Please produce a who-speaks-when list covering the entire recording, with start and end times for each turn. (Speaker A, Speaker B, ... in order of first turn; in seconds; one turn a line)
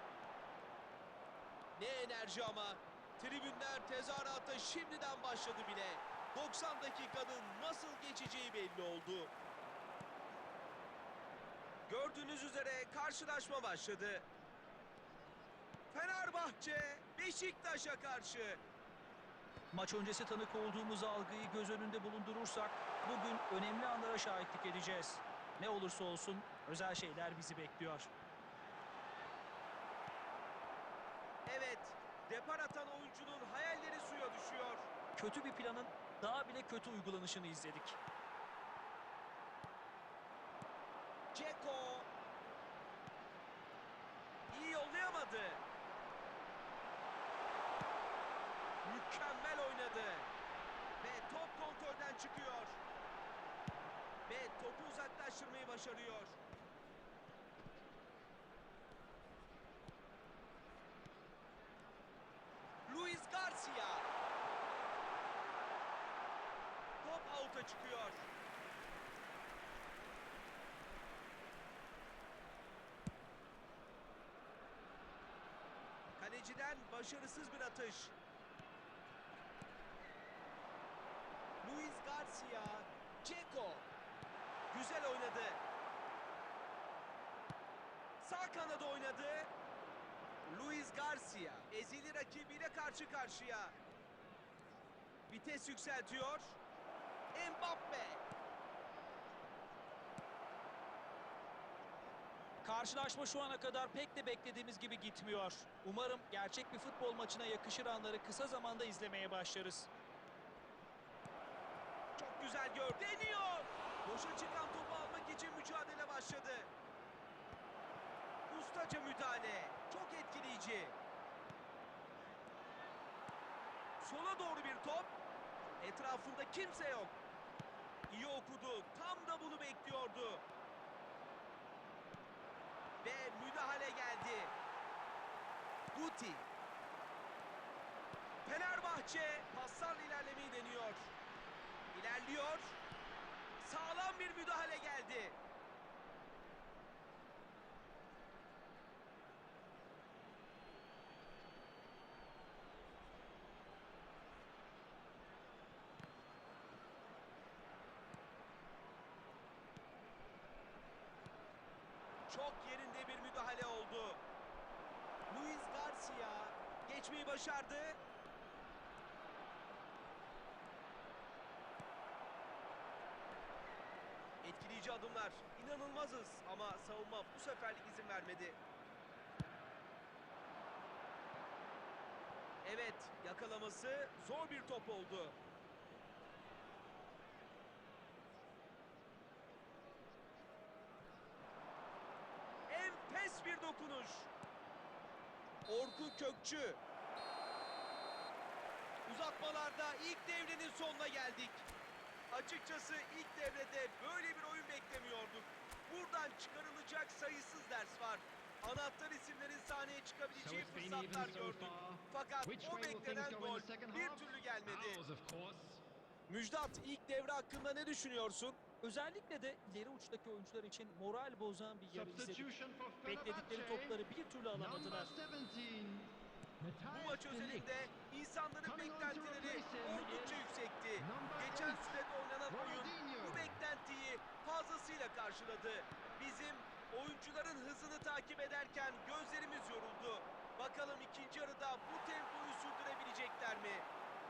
Speaker A: 1.8-9.3
Speaker A: 11.9-14.3
Speaker A: 15.9-18.6
Speaker B: 19.7-28.1
Speaker A: 31.5-34.9
Speaker B: 35.2-38.0
Speaker A: 41.3-42.1
Speaker A: 44.5-45.6
Speaker A: 48.8-50.3
Speaker A: 51.0-52.8
Speaker A: 54.3-56.4
Speaker A: 62.9-64.1
Speaker A: 67.0-68.3
Speaker A: 76.2-78.1
Speaker A: 81.6-83.9
Speaker A: 84.7-85.6
Speaker A: 88.2-89.5
Speaker A: 90.5-93.8
Speaker A: 95.3-96.6
Speaker A: 97.3-98.2
Speaker B: 102.6-109.9
Speaker A: 112.2-116.7
Speaker A: 118.5-121.0
Speaker A: 124.0-125.1
Speaker A: 125.8-127.2
Speaker A: 128.1-130.4
Speaker A: 133.0-134.6
Speaker A: 135.9-136.5
Speaker A: 138.4-141.1
Speaker A: 141.9-142.8
Speaker A: 143.6-145.4
Speaker A: 162.3-164.2
Speaker A: 165.3-168.0
Speaker A: 174.4-178.6
Speaker A: 182.6-185.4
Speaker A: 192.7-194.3
Speaker A: 195.7-196.8
Speaker A: 199.1-201.7
Speaker A: 202.3-215.0
Speaker C: 210.3-215.8
Speaker A: 216.3-218.6
Speaker B: 218.8-222.5
Speaker C: 221.9-224.0
Speaker B: 223.1-225.1
Speaker C: 224.5-227.9
Speaker A: 226.9-243.9
Speaker C: 228.6-230.5
Speaker C: 231.0-231.9
Speaker C: 232.5-233.6